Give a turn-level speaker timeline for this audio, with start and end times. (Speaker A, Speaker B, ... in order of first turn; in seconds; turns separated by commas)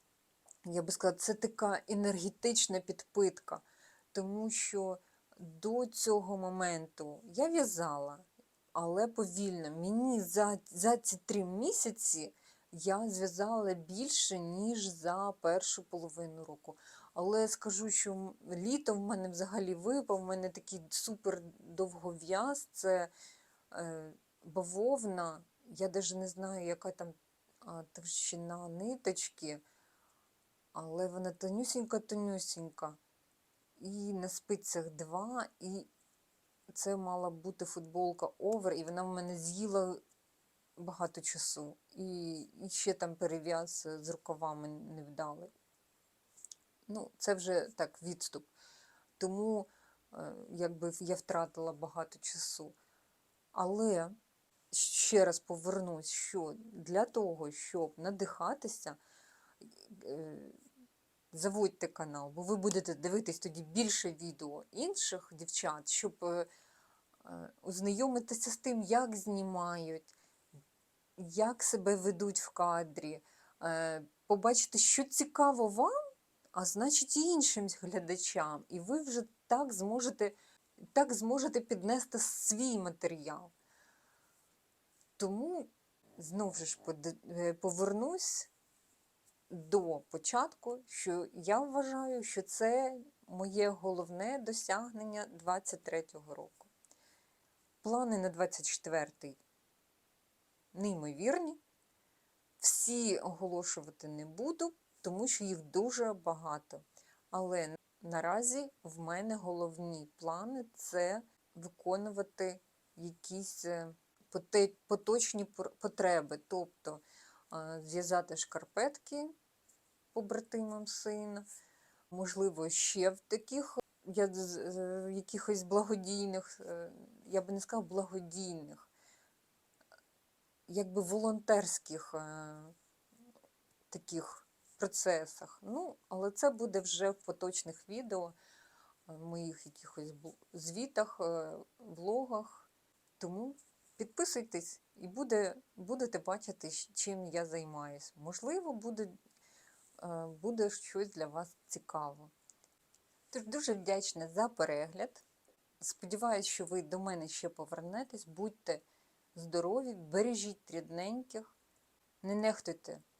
Speaker A: 0.6-23.1, Speaker A: 23.7-29.6, Speaker A: 30.7-33.0, Speaker A: 33.8-35.9, Speaker A: 36.7-40.0, Speaker A: 40.8-45.5, Speaker A: 46.9-48.5, Speaker A: 49.2-52.8, Speaker A: 53.5-54.1, Speaker A: 54.7-59.0, Speaker A: 59.6-60.6, Speaker A: 61.3-66.5, Speaker A: 67.2-70.1, Speaker A: 71.2-75.9, Speaker A: 76.5-80.3, Speaker A: 80.9-83.5, Speaker A: 85.2-88.5, Speaker A: 89.5-96.7, Speaker A: 97.8-99.4, Speaker A: 100.7-101.6, Speaker A: 102.6-119.3, Speaker A: 120.1-121.5, Speaker A: 122.1-128.9, Speaker A: 130.7-132.7, Speaker A: 133.9-138.3, Speaker A: 139.1-149.1, Speaker A: 150.0-152.3, Speaker A: 153.3-155.2, Speaker A: 155.8-161.5, Speaker A: 162.2-163.0